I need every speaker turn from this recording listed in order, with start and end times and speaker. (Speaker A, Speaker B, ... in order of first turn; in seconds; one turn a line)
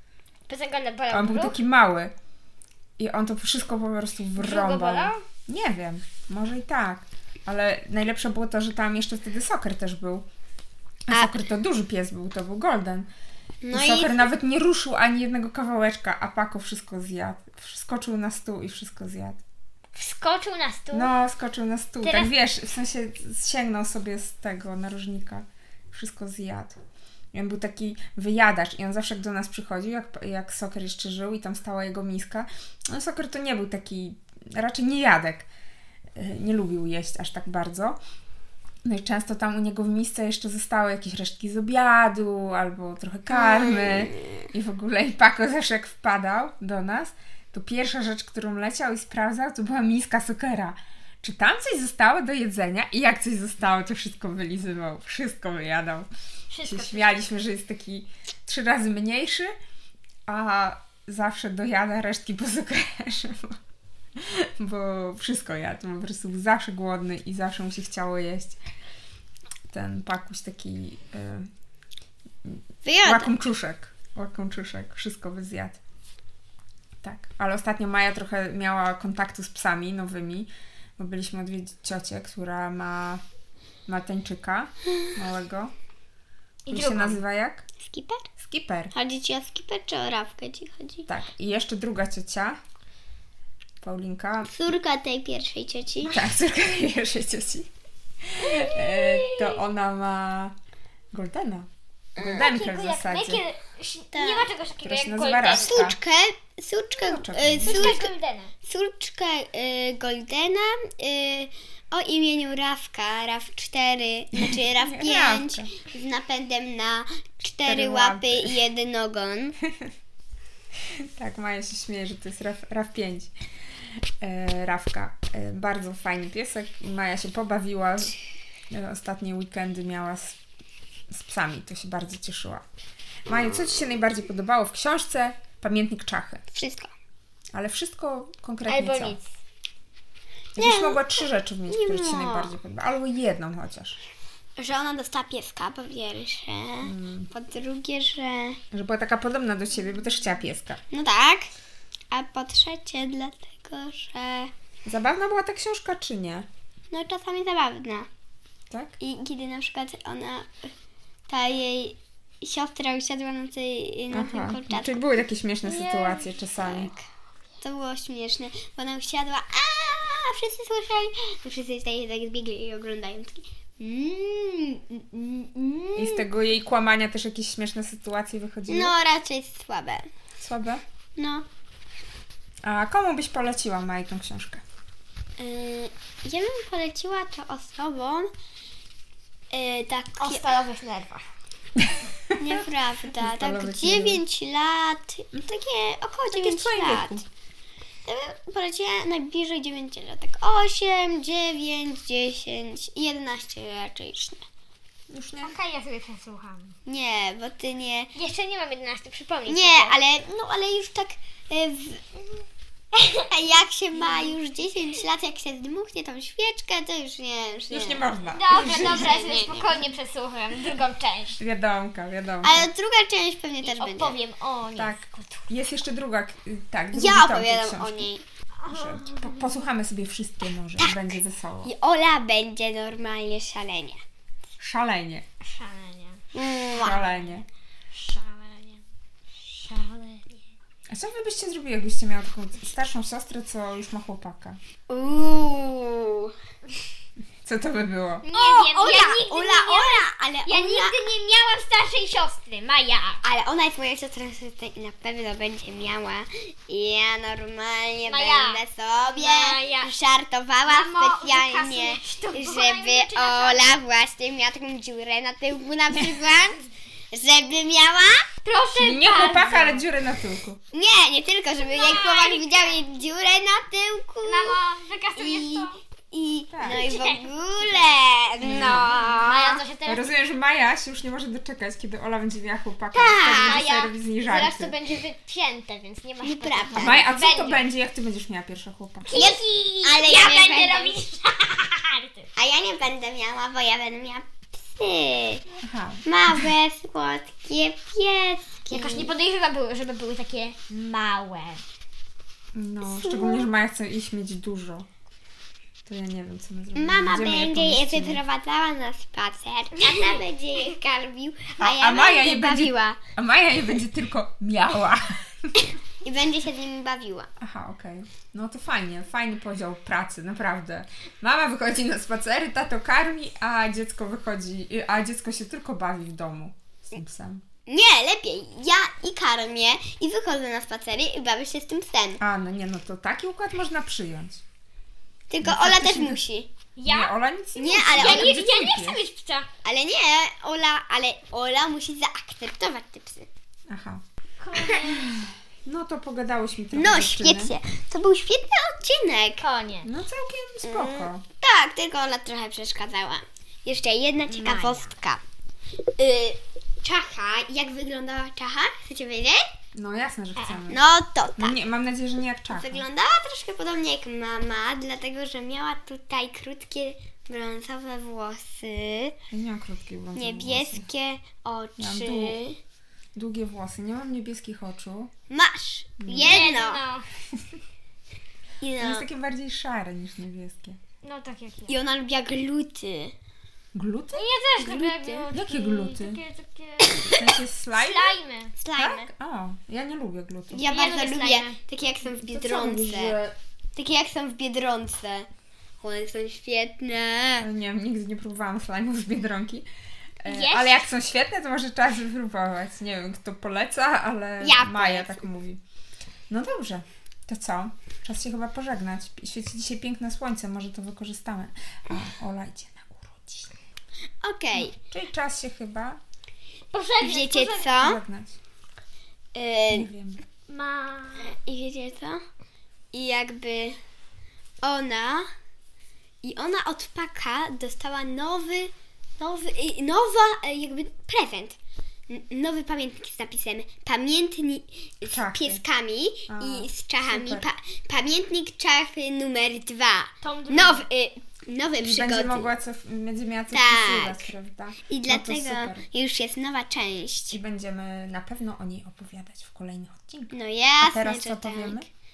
Speaker A: 0.5-1.6
Speaker B: 1.1-2.1
Speaker B: 3.0-10.3
Speaker A: 4.4-5.2
Speaker B: 11.1-13.1
Speaker C: 13.6-14.3
Speaker B: 13.7-19.4
Speaker A: 19.9-21.1
Speaker B: 20.9-26.8
Speaker A: 22.0-22.3
Speaker B: 27.3-35.5
Speaker B: 36.1-38.0
Speaker B: 38.8-56.1
Speaker C: 43.3-44.5
Speaker A: 56.5-57.3
Speaker B: 56.6-59.5
Speaker B: 60.3-63.6
Speaker B: 64.2-68.6
Speaker B: 69.7-71.5
Speaker B: 72.4-75.8
Speaker C: 72.8-73.3
Speaker B: 77.0-83.2
Speaker B: 83.9-85.7
Speaker A: 86.7-87.2
Speaker B: 86.7-87.6
Speaker C: 87.8-88.3
Speaker B: 88.4-88.9
Speaker C: 88.9-91.1
Speaker B: 91.1-92.6
Speaker B: 93.8-94.6
Speaker C: 94.5-96.2
Speaker B: 96.1-97.7
Speaker B: 98.2-100.6
Speaker A: 98.4-99.6
Speaker B: 101.1-103.4
Speaker A: 102.2-105.9
Speaker C: 104.1-104.5
Speaker B: 104.8-106.0
Speaker C: 105.5-108.1
Speaker B: 107.0-108.0
Speaker A: 107.6-108.5
Speaker C: 108.6-119.6
Speaker B: 114.4-115.7
Speaker B: 117.6-118.6
Speaker B: 119.7-119.9
Speaker B: 120.9-123.3
Speaker B: 124.2-128.1
Speaker B: 128.7-130.4
Speaker B: 131.1-132.6
Speaker B: 133.3-136.4
Speaker C: 136.5-136.9
Speaker B: 137.5-139.2
Speaker A: 138.7-139.3
Speaker B: 140.6-144.0
Speaker C: 140.6-142.5
Speaker C: 144.6-148.6
Speaker B: 146.8-147.3
Speaker B: 148.7-150.8
Speaker C: 150.9-151.5
Speaker C: 152.1-154.5
Speaker B: 154.8-156.5
Speaker C: 156.9-158.1
Speaker B: 158.7-159.0
Speaker C: 159.0-160.7
Speaker C: 161.3-165.1
Speaker B: 164.1-166.9
Speaker C: 165.7-167.0
Speaker C: 167.6-176.3
Speaker B: 175.9-178.9
Speaker C: 178.7-180.1
Speaker B: 180.4-180.8
Speaker C: 181.2-181.4
Speaker B: 182.6-184.6
Speaker C: 185.4-188.3
Speaker C: 189.5-190.5
Speaker A: 190.2-191.2
Speaker B: 192.3-194.2
Speaker C: 192.3-197.2
Speaker B: 196.3-197.3
Speaker C: 198.1-204.4
Speaker B: 205.1-205.6
Speaker A: 205.4-206.8
Speaker C: 206.9-208.1
Speaker A: 208.2-210.0
Speaker C: 209.5-212.3
Speaker C: 213.0-219.8
Speaker A: 214.0-214.4
Speaker B: 217.7-219.2
Speaker A: 218.3-221.4
Speaker B: 221.4-222.7
Speaker C: 222.4-224.2
Speaker A: 223.6-225.5
Speaker B: 224.8-228.1
Speaker C: 226.9-228.2
Speaker A: 228.6-229.5
Speaker B: 228.7-231.7
Speaker C: 230.8-234.0
Speaker B: 234.6-235.2
Speaker A: 235.4-237.4
Speaker C: 236.3-237.0
Speaker B: 236.8-237.5
Speaker A: 237.9-238.8
Speaker A: 239.3-240.4
Speaker B: 240.9-244.6
Speaker C: 244.9-246.3
Speaker B: 247.4-248.3
Speaker A: 248.3-253.2
Speaker C: 248.3-251.0
Speaker C: 253.2-268.3
Speaker A: 258.1-258.6
Speaker A: 259.2-259.9
Speaker A: 260.6-263.8
Speaker A: 268.4-269.8
Speaker B: 268.8-270.6
Speaker C: 270.7-274.6
Speaker A: 271.6-272.8
Speaker A: 274.3-275.8
Speaker C: 275.2-279.6
Speaker B: 276.5-276.8
Speaker A: 276.6-280.1
Speaker B: 278.4-278.9
Speaker B: 279.9-284.8
Speaker C: 282.9-283.6
Speaker A: 283.2-287.6
Speaker C: 286.2-287.1
Speaker B: 286.8-289.2
Speaker A: 289.1-292.3
Speaker C: 289.1-291.0
Speaker C: 292.4-295.4
Speaker B: 295.6-296.5
Speaker C: 296.1-299.1
Speaker A: 298.7-301.6
Speaker B: 302.5-304.9
Speaker C: 302.8-303.5
Speaker B: 305.9-308.2
Speaker C: 306.8-313.0
Speaker A: 309.8-310.2
Speaker B: 311.6-315.7
Speaker C: 316.0-317.3
Speaker B: 317.4-327.4
Speaker C: 327.7-332.2
Speaker B: 332.2-334.4
Speaker C: 335.3-336.5
Speaker B: 335.4-336.2
Speaker A: 336.8-337.1
Speaker B: 336.9-339.0
Speaker C: 337.6-338.4
Speaker A: 337.9-339.5
Speaker C: 339.6-343.3
Speaker B: 343.7-344.0
Speaker A: 344.4-345.1
Speaker B: 344.6-347.5
Speaker C: 346.7-349.4
Speaker A: 349.4-349.9
Speaker B: 349.8-351.2
Speaker C: 350.6-355.2
Speaker A: 354.3-354.9
Speaker C: 356.0-359.5
Speaker B: 359.7-360.8
Speaker C: 360.7-361.6
Speaker B: 361.4-362.9
Speaker C: 362.5-369.1
Speaker B: 369.3-370.9
Speaker C: 370.1-372.6
Speaker B: 371.8-372.4
Speaker B: 373.1-375.1
Speaker C: 375.3-376.8
Speaker B: 376.0-376.5
Speaker A: 376.2-377.1
Speaker C: 378.6-379.1
Speaker B: 378.8-380.8
Speaker A: 381.0-381.8
Speaker C: 381.7-383.1
Speaker B: 383.7-386.2
Speaker A: 384.1-387.2
Speaker C: 384.7-385.3
Speaker C: 386.8-387.2
Speaker B: 387.0-388.2
Speaker A: 387.7-388.5
Speaker C: 388.6-389.1
Speaker B: 388.8-390.7
Speaker C: 390.5-393.2
Speaker A: 390.6-391.6
Speaker B: 392.1-393.4
Speaker C: 393.8-395.3
Speaker C: 395.8-397.5
Speaker B: 397.4-399.7
Speaker B: 400.2-405.6
Speaker A: 400.3-400.8
Speaker C: 404.4-405.2
Speaker B: 406.3-413.5
Speaker C: 414.2-414.8
Speaker B: 414.5-416.0
Speaker A: 416.7-417.8
Speaker C: 417.0-418.0
Speaker B: 417.8-418.4
Speaker C: 419.4-419.9
Speaker B: 419.7-420.2
Speaker A: 420.5-421.4
Speaker C: 421.2-422.2
Speaker C: 422.9-423.8
Speaker C: 424.6-425.3
Speaker C: 426.2-431.6
Speaker C: 432.1-442.6
Speaker B: 435.1-435.6
Speaker B: 436.3-437.4
Speaker A: 440.2-440.9
Speaker B: 441.8-445.9
Speaker C: 443.5-444.3
Speaker C: 444.9-447.4
Speaker B: 447.3-451.9
Speaker C: 450.3-451.9